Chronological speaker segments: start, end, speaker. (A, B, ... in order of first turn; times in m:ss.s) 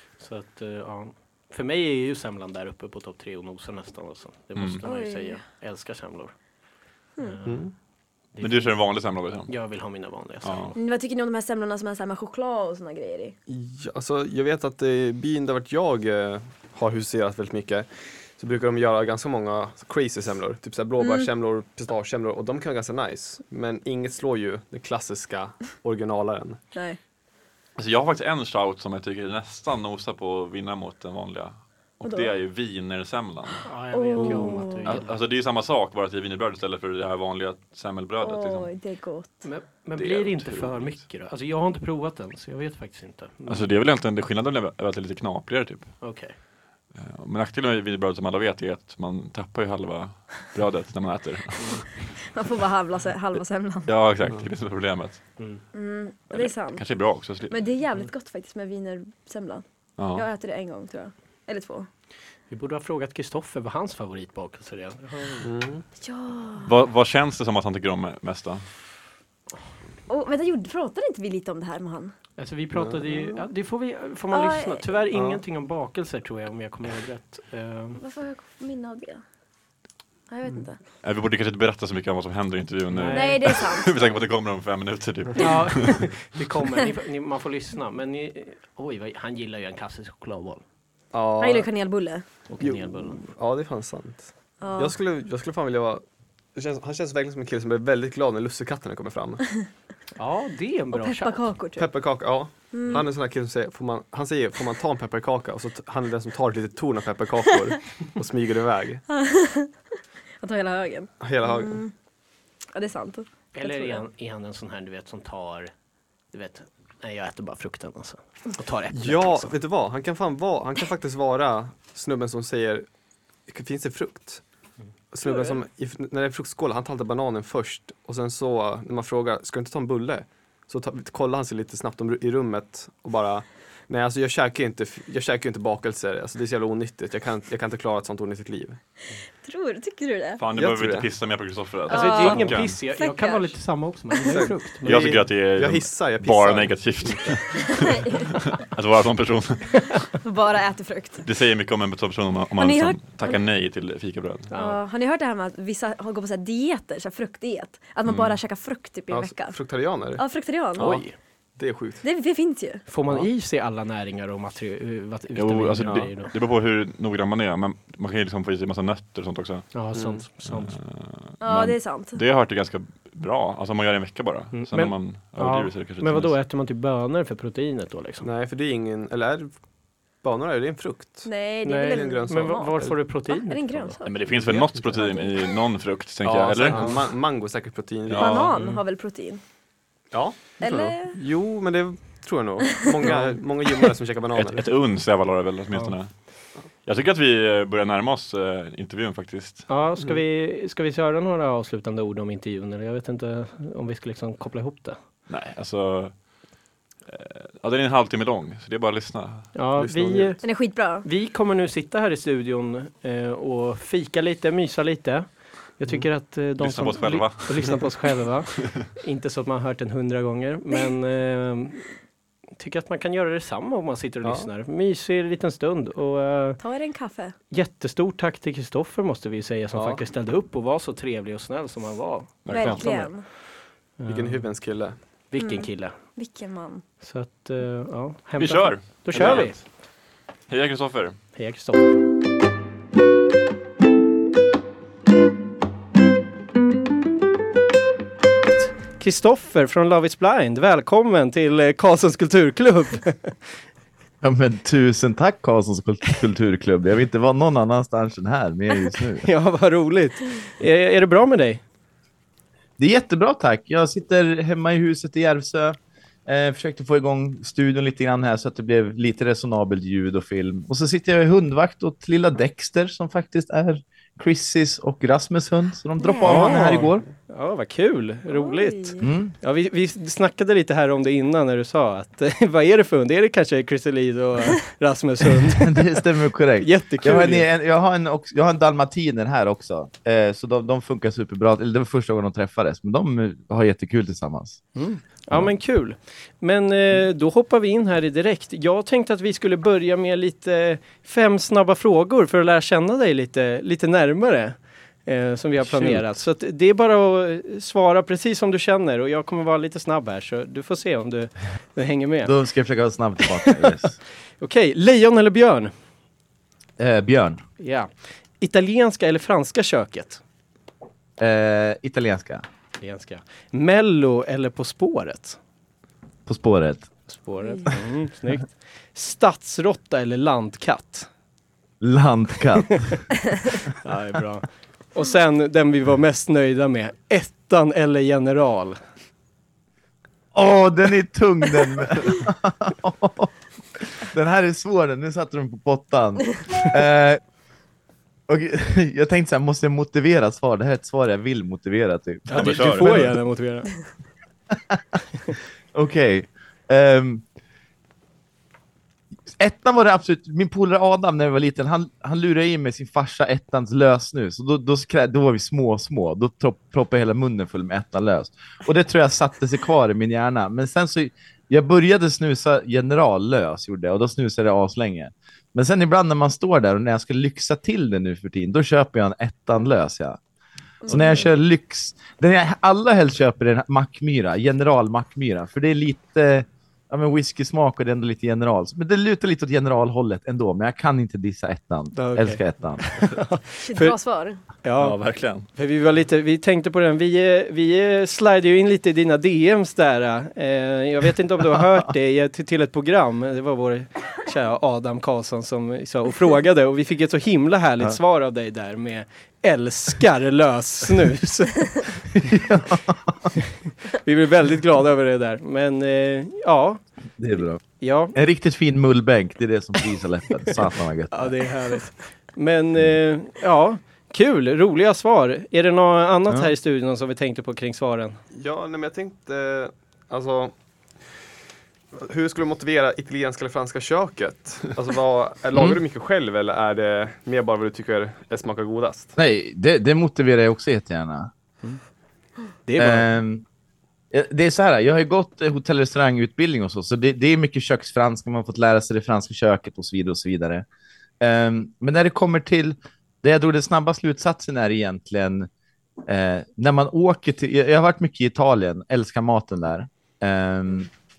0:00.2-0:10.8 A
0:04.6-0:04.8 B
0:04.8-0:05.4 C
0:07.4-0:07.7 D
0:08.3-0:10.7 B
0:10.8-0:13.4 C
0:13.5-0:26.6 D
0:21.0-0:21.3 C
0:26.7-0:27.0 C
0:27.8-0:33.7 B
0:32.0-0:32.3 C
0:33.7-0:35.1 A
0:33.9-0:35.0 C
0:34.2-0:34.7 D
0:34.6-0:38.7 B
0:38.2-0:39.5 C
0:39.4-0:43.7 A
0:40.0-0:41.0 B
0:43.5-0:46.4 B
0:46.0-0:46.4 A
0:46.9-0:52.1 B
0:52.3-0:54.1 C
0:53.8-0:55.4 B
0:54.2-0:54.5 D
0:55.4-0:55.6 A
0:55.7-1:01.9 C
0:56.3-0:57.7 B
1:00.0-1:00.3 B
1:02.5-1:05.5 A
1:05.4-1:05.9 D
1:06.0-1:06.7 C
1:06.6-1:08.8 B
1:10.1-1:12.2 C
1:12.4-1:18.0 A
1:12.7-1:13.4 D
1:14.3-1:15.0 C
1:15.1-1:15.4 D
1:18.0-1:19.3 C
1:20.3-1:20.8 C
1:21.0-1:26.2 B
1:22.9-1:23.5 A
1:23.1-1:23.9 C
1:25.4-1:30.7 A
1:31.1-1:32.0 D
1:31.4-1:32.3 C
1:32.5-1:33.3 A
1:32.6-1:39.4 D
1:34.6-1:35.0 C
1:40.2-1:41.5 A
1:40.9-1:43.1 C
1:41.8-1:49.0 D
1:49.1-1:52.1 C
1:51.2-1:51.8 D
1:52.6-1:54.0 C
1:53.5-1:59.6 A
1:58.9-2:18.8 D
2:04.8-2:05.6 A
2:19.0-2:20.4 C
2:20.4-2:22.8 B
2:20.6-2:21.1 D
2:21.9-2:23.8 C
2:21.9-2:25.2 A
2:24.2-2:27.4 D
2:24.7-2:30.1 B
2:27.7-2:28.6 C
2:30.2-2:31.3 C
2:31.2-2:34.5 B
2:32.6-2:33.5 C
2:34.5-2:34.8 A
2:34.5-2:41.4 C
2:38.1-2:38.4 B
2:39.1-2:42.0 D
2:40.8-2:41.2 A
2:42.0-2:42.8 C
2:42.9-2:46.3 A
2:45.3-2:49.8 B
2:45.8-2:46.2 D
2:49.7-2:50.8 A
2:49.9-2:50.2 D
2:50.4-2:56.4 B
2:51.4-2:52.2 C
2:54.5-2:58.3 A
2:58.2-3:03.1 D
3:01.2-3:04.3 C
3:01.6-3:04.0 A
3:04.0-3:07.2 B
3:04.3-3:05.0 D
3:04.9-3:05.4 C
3:06.2-3:08.6 D
3:06.7-3:07.0 A
3:08.1-3:08.5 B
3:08.1-3:09.4 C
3:08.5-3:08.8 A
3:10.1-3:14.7 D
3:10.6-3:11.2 C
3:13.0-3:13.4 A
3:14.3-3:19.7 B
3:15.7-3:16.0 A
3:19.7-3:25.0 A
3:25.3-3:29.7 B
3:29.5-3:46.6 A
3:29.8-3:30.4 D
3:30.4-3:31.1 C
3:36.5-3:38.1 B
3:44.2-3:44.5 D
3:46.6-3:47.4 C
3:47.5-3:56.2 A
3:49.7-3:50.0 D
3:52.4-3:53.1 B
3:52.5-3:53.3 C
3:54.1-3:55.3 D
3:55.4-3:56.8 C
3:57.0-3:59.6 A
3:58.4-4:01.2 B
3:59.1-3:59.6 D
4:01.3-4:02.0 A
4:09.0-4:13.6 A
4:14.2-4:19.3 E
4:19.2-4:21.6 A
4:22.8-4:37.0 E
4:36.0-4:36.7 C
4:36.2-4:45.9 A
4:36.8-4:37.1 D
4:38.3-4:39.1 C
4:39.0-4:39.3 E
4:45.6-4:55.6 E
4:46.6-4:47.5 A
4:54.8-5:12.4 A
5:05.6-5:06.2 E
5:12.2-5:14.0 E
5:14.3-5:15.8 A
5:16.8-5:17.4 E
5:17.6-5:20.2 A
5:21.2-5:22.4 E
5:22.8-5:25.4 A
5:26.3-5:27.1 E
5:27.1-5:31.1 A
5:31.8-5:33.1 E
5:33.8-5:38.9 A
5:40.3-5:47.2 E
5:48.3-5:53.2 E
5:52.3-5:54.0 A
5:52.3-5:53.2 B
5:55.7-5:57.2 E
5:59.3-6:20.2 E
6:20.8-6:21.3 C
6:20.9-6:33.1 E
6:31.9-6:34.0 A
6:33.6-6:34.4 C
6:34.6-6:52.3 A
6:34.8-6:35.5 B
6:52.3-6:53.3 E
6:53.9-6:56.8 A
6:57.2-6:57.6 E
6:57.8-6:58.2 A
6:58.1-7:01.5 E
7:01.1-7:08.2 A
7:08.3-7:10.5 D
7:11.9-7:19.2 D
7:19.2-7:21.3 E
7:22.6-7:23.1 A
7:22.8-7:23.4 E
7:24.1-7:30.7 E
7:31.2-7:35.5 E
7:36.0-7:40.9 E